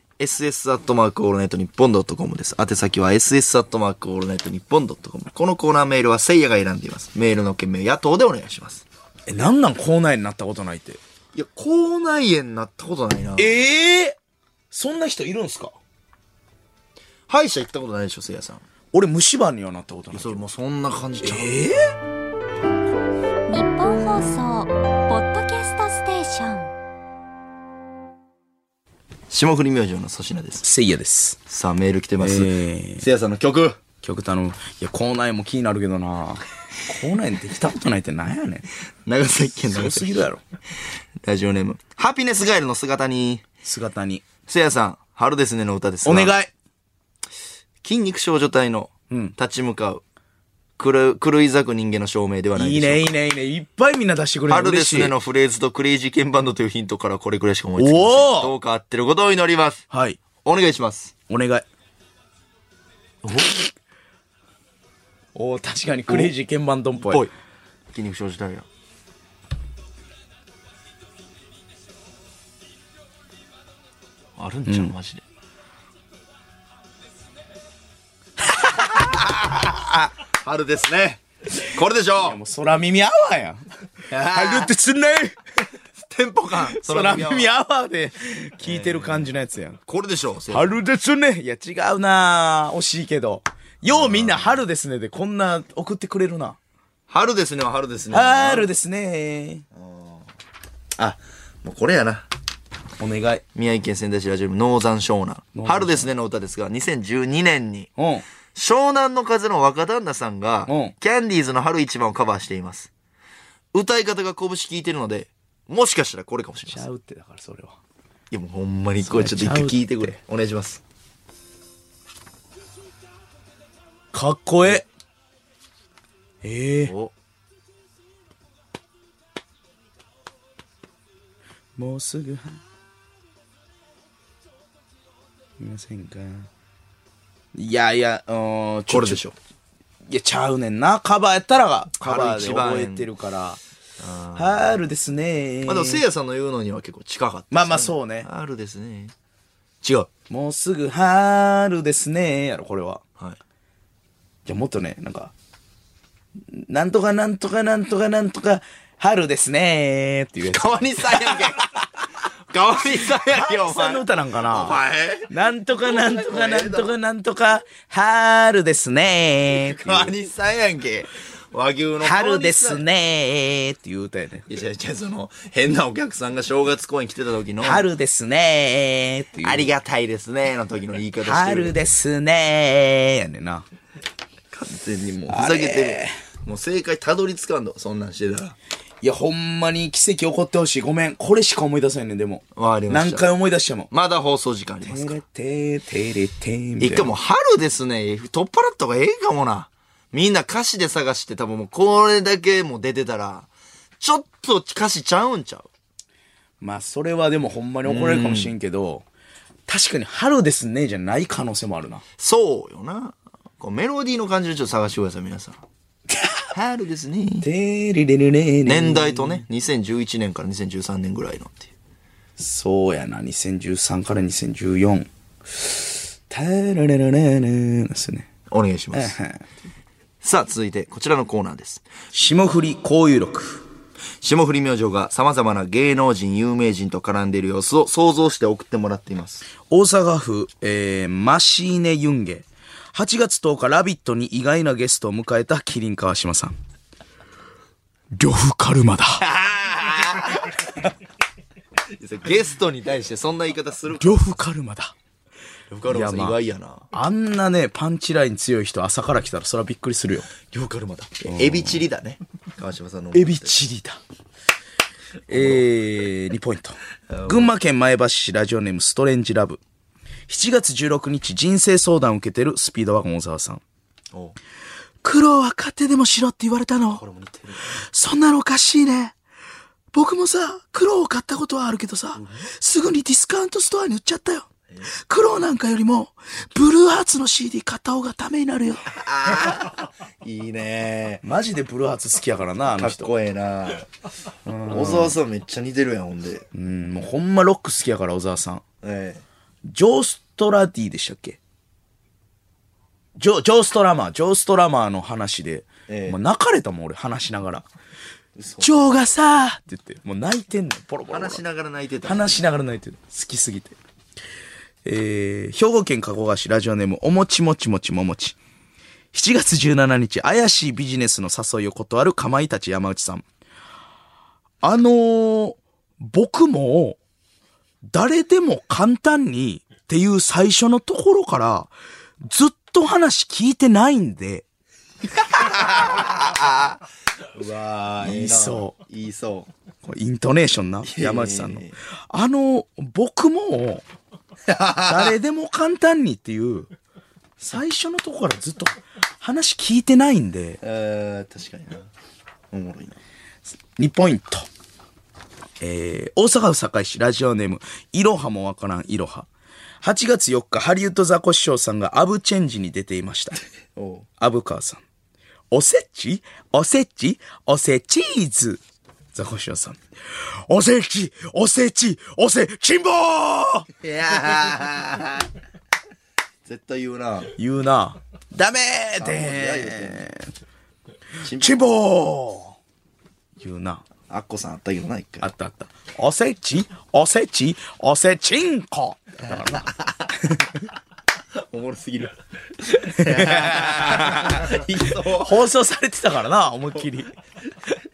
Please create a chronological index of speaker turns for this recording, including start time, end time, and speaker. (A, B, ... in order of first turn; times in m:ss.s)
0:00.2-0:08.8 A
0:09.3-0:11.0 B
0:11.3-0:13.5 A
0:13.4-0:14.2 B
0:14.7-0:15.8 B
0:17.3-0:18.6 A
0:18.9-0:20.4 B
0:20.1-0:21.5 A
0:21.2-0:21.8 B
0:23.5-0:26.7 C
0:29.3-0:30.6 A
0:30.6-0:31.4 B
0:31.5-0:33.8 A
0:32.2-0:33.0 B
0:34.0-0:38.6 B
0:39.0-0:40.2 A
0:39.6-0:40.4 B
0:41.2-0:43.4 A
0:43.6-0:44.2 B
0:44.5-0:46.3 A
0:46.0-0:46.5 B
0:47.8-0:50.0 A
0:49.1-0:49.3 B
0:50.8-0:53.1 A
0:52.6-0:55.1 B
0:54.5-0:59.9 A
0:57.8-0:58.5 B
0:59.9-1:00.2 B
1:00.4-1:01.1 A
1:01.3-1:01.6 B
1:03.2-1:03.6 A
1:05.3-1:07.2 B
1:06.1-1:06.3 A
1:07.0-1:07.3 A
1:07.9-1:08.7 A
1:14.4-1:15.2 A
1:14.7-1:14.9 B
1:18.6-1:20.0 B
1:20.4-1:22.4 A
1:22.2-1:23.6 B
1:24.1-1:24.7 A
1:24.2-1:25.4 B
1:26.0-1:27.5 A
1:26.6-1:29.8 B
1:28.6-1:29.3 A
1:29.9-1:30.8 A
1:30.5-1:36.6 B
1:33.9-1:34.6 A
1:37.1-1:38.7 A
1:38.1-1:39.6 B
1:39.7-1:40.3 A
1:41.0-1:42.3 A
1:43.0-1:43.4 B
1:43.6-1:47.9 A
1:45.6-1:46.1 B
1:48.0-1:48.2 B
1:48.6-1:52.9 A
1:50.7-1:50.9 B
1:53.7-1:56.9 A
1:56.7-1:57.8 B
1:58.3-2:00.8 A
1:59.0-2:00.2 B
2:04.1-2:04.9 B
2:06.4-2:06.9 B
2:06.9-2:07.1 A
2:11.8-2:12.6 B
2:15.6-2:16.5 B
2:17.5-2:19.2 B
2:18.9-2:19.4 A
2:20.1-2:23.6 B
2:22.0-2:23.1 A
2:24.0-2:24.8 A
2:24.4-2:26.0 B
2:25.6-2:29.1 A
2:27.5-2:28.3 B
2:29.8-2:30.1 A
2:30.3-2:33.0 B
2:34.4-2:35.3 B
2:36.5-2:41.5 B
2:40.5-2:41.7 A
2:42.5-2:46.9 A
2:43.1-2:50.1 B
2:49.5-2:52.8 A
2:52.0-2:54.4 B
2:54.5-2:57.9 A
2:57.6-2:59.7 B
2:59.4-3:01.7 A
3:01.2-3:03.6 B
3:04.5-3:08.6 A
3:05.3-3:06.1 B
3:09.0-3:13.9 B
3:12.6-3:13.3 A
3:13.9-3:15.2 A
3:14.9-3:17.1 B
3:16.8-3:23.5 A
3:24.0-3:25.7 A
3:26.6-3:29.0 B
3:27.8-3:28.5 A
3:29.7-3:32.0 B
3:32.2-3:35.6 A
3:36.5-3:37.5 A
3:37.4-3:39.4 B
3:38.6-3:41.7 A
3:42.4-3:48.3 B
3:48.5-3:49.2 A
3:48.9-3:49.4 B
3:50.2-3:51.8 A
3:52.1-3:53.6 B
3:54.2-3:59.4 A
3:59.7-4:06.6 B
4:08.1-4:09.2 B
4:09.2-4:10.8 A
4:12.0-4:14.3 A
4:14.0-4:14.9 B
4:15.7-4:16.9 A
4:15.9-4:16.4 B
4:16.9-4:20.3 B
4:20.4-4:23.6 A
4:21.2-4:21.8 B
4:23.1-4:24.0 B
4:25.3-4:25.6 A
4:25.3-4:29.6 B
4:27.1-4:27.5 A
4:30.3-4:33.6 B
4:35.0-4:37.0 B
4:37.0-4:37.8 A
4:37.7-4:39.1 B
4:39.9-4:48.8 B
4:42.2-4:42.4 A
4:48.9-4:51.2 A
4:51.2-4:53.1 B
4:52.7-4:53.9 A
4:54.4-4:55.2 B
4:54.6-4:56.5 A
4:56.5-4:58.6 B
4:58.8-4:59.2 A
4:59.6-5:01.4 B
5:03.2-5:07.6 B
5:05.9-5:06.2 A
5:08.4-5:08.7 A
5:08.6-5:11.4 B
5:11.1-5:12.3 A
5:12.0-5:13.8 B
5:14.8-5:18.4 B
5:19.1-5:23.2 B
5:24.6-5:27.0 B
5:27.9-5:34.4 B
5:35.2-5:36.8 A
5:35.5-5:36.1 B
5:37.3-5:39.5 A
5:38.0-5:38.7 B
5:39.8-5:43.8 B
5:40.8-5:41.8 A
5:44.5-5:45.1 A
5:44.8-5:46.7 B
5:47.4-5:50.6 B
5:50.6-5:51.9 A
5:52.5-5:53.0 A
5:53.8-5:54.5 B
5:55.6-5:59.3 B
5:59.8-6:03.4 B
6:03.8-6:04.1 A
6:04.2-6:04.8 B
6:05.5-6:08.6 B
6:09.1-6:13.7 B
6:13.8-6:15.3 A
6:16.4-6:17.4 A
6:17.4-6:20.3 B
6:19.0-6:20.1 A
6:21.2-6:21.6 A
6:21.4-6:22.6 B
6:23.4-6:23.8 B
6:24.1-6:25.3 A
6:25.2-6:30.4 B
6:29.5-6:30.1 A
6:31.4-6:35.4 A
6:33.0-6:37.1 B